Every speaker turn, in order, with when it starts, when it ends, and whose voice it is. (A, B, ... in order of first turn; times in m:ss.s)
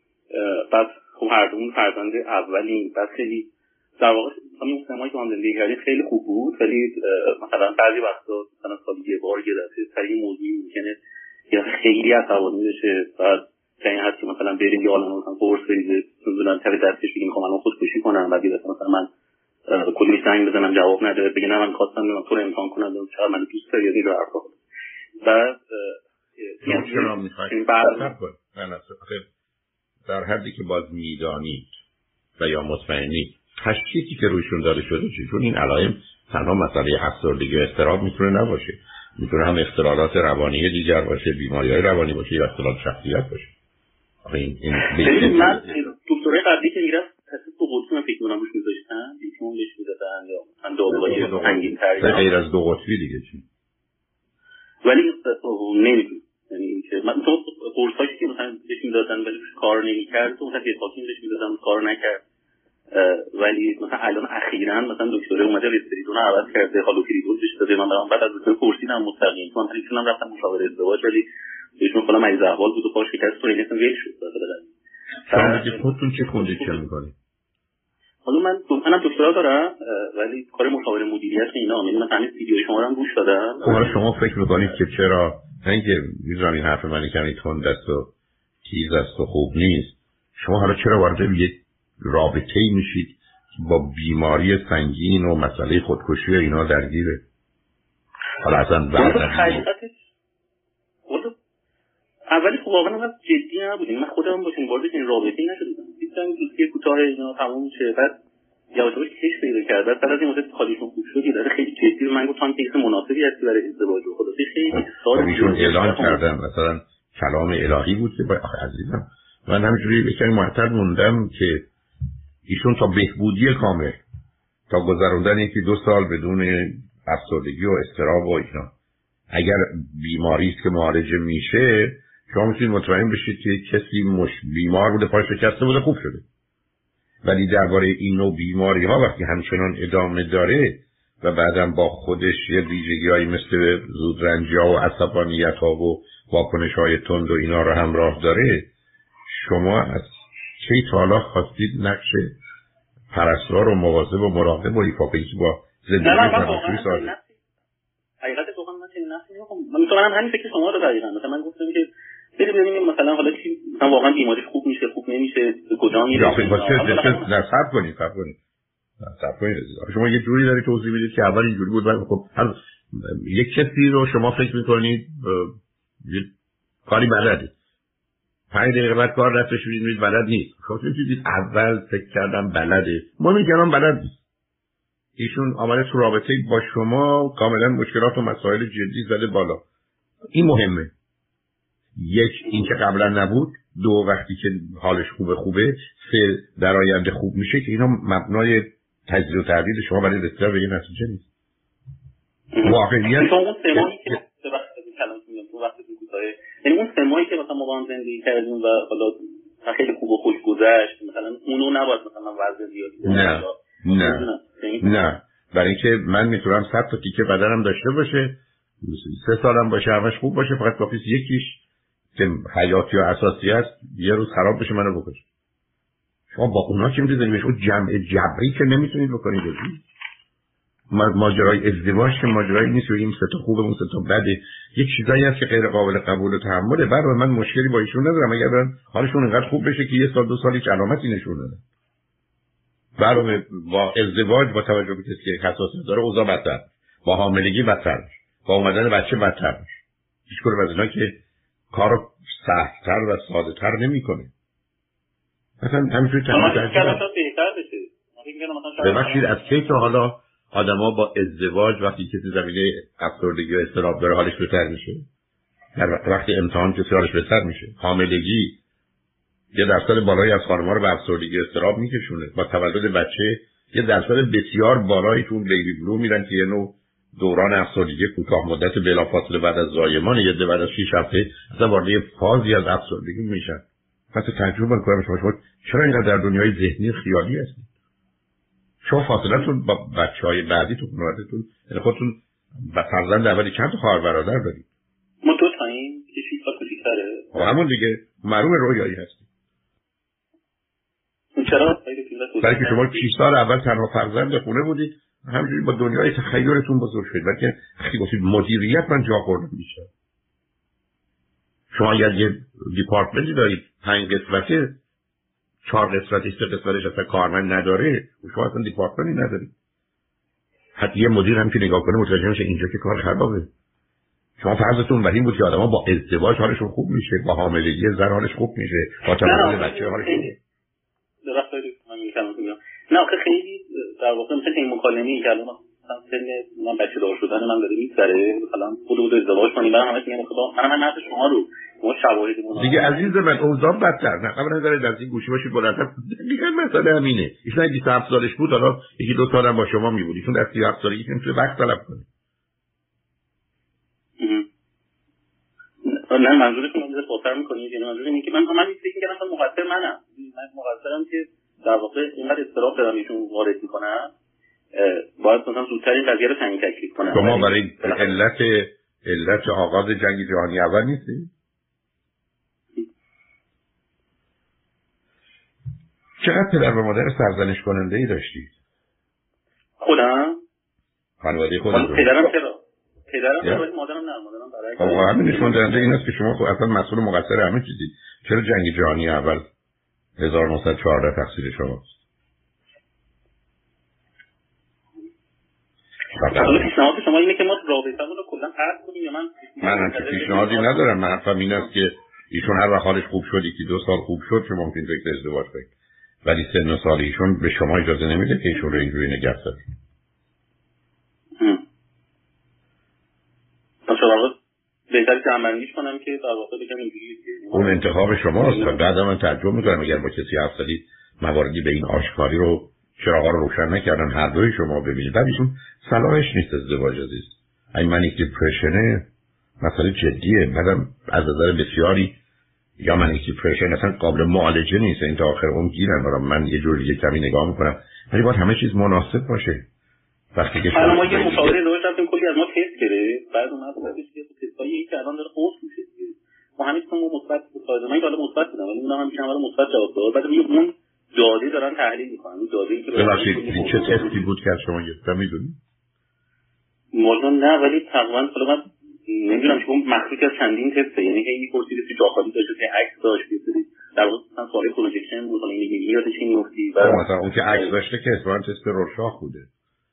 0:00.3-0:11.0 A
0:11.5-0:19.1 A
0:19.7-0:24.6 A
0:25.2-0:28.1 A
0:26.6-0:29.2 B
0:30.0-0:31.8 B
0:32.4-0:43.5 B
0:44.2-0:45.7 B
0:45.0-0:52.3 A
0:50.9-0:53.4 B
0:54.8-1:02.2 A
1:02.9-1:11.2 A
1:11.8-1:14.7 A
1:15.3-1:16.8 A
1:15.3-1:17.1 B
1:18.2-1:24.0 A
1:23.6-1:28.1 B
1:28.6-1:37.2 B
1:38.4-1:39.6 B
1:38.9-1:39.9 A
1:41.1-1:41.3 A
1:42.3-1:48.1 A
1:48.7-1:56.2 A
1:54.7-2:01.6 B
2:02.5-2:04.0 B
2:04.7-2:08.7 B
2:09.3-2:16.2 B
2:17.2-2:28.7 B
2:29.4-2:32.3 B
2:33.1-2:37.1 B
2:36.0-2:37.3 A
2:38.2-2:47.3 A
2:46.1-2:48.4 B
2:49.0-2:56.3 B
2:56.8-2:57.5 B
2:58.5-3:04.2 B
3:05.2-3:09.6 B
3:10.3-3:10.9 B
3:12.0-3:21.3 B
3:22.5-3:35.0 A
3:22.6-3:24.1 B
3:33.0-3:34.3 B
3:34.8-3:41.6 B
3:42.2-3:45.2 B
3:46.3-3:49.8 B
3:50.9-4:01.6 B
4:03.0-4:09.7 B
4:10.3-4:11.1 B
4:11.7-4:14.3 B
4:15.6-4:17.0 B
4:16.3-4:19.5 A
4:18.8-4:25.0 B
4:25.8-4:28.6 B
4:29.5-4:47.7 B
4:48.8-4:54.6 B
4:55.2-4:57.5 A
4:57.3-4:59.2 B
5:01.4-5:03.1 A
5:02.4-5:09.9 B
5:11.7-5:14.8 B
5:15.6-5:19.5 B
5:20.8-5:23.5 B
5:24.4-5:30.4 B
5:29.2-5:30.3 A
5:31.2-5:43.4 A
5:42.6-5:52.1 B
5:54.2-5:54.4 A
5:55.8-6:04.1 A
6:04.7-6:08.2 A
6:07.1-6:11.3 B
6:16.2-6:18.5 B
6:19.8-6:20.4 A
6:21.2-6:22.3 B
6:21.7-6:25.9 A
6:24.8-6:29.4 B
6:30.2-6:31.9 B
6:36.1-6:36.7 B
6:36.3-6:40.9 A
6:39.6-6:45.7 B
6:46.2-6:49.6 B
6:53.9-6:54.3 A
6:54.9-6:58.8 A
6:57.5-7:09.1 B
6:59.6-7:00.0 A
7:09.6-7:12.2 B
7:12.8-7:19.6 B
7:20.3-7:21.6 B
7:20.7-7:34.2 A
7:32.9-7:35.6 B
7:36.9-7:47.7 A
7:46.8-7:49.5 B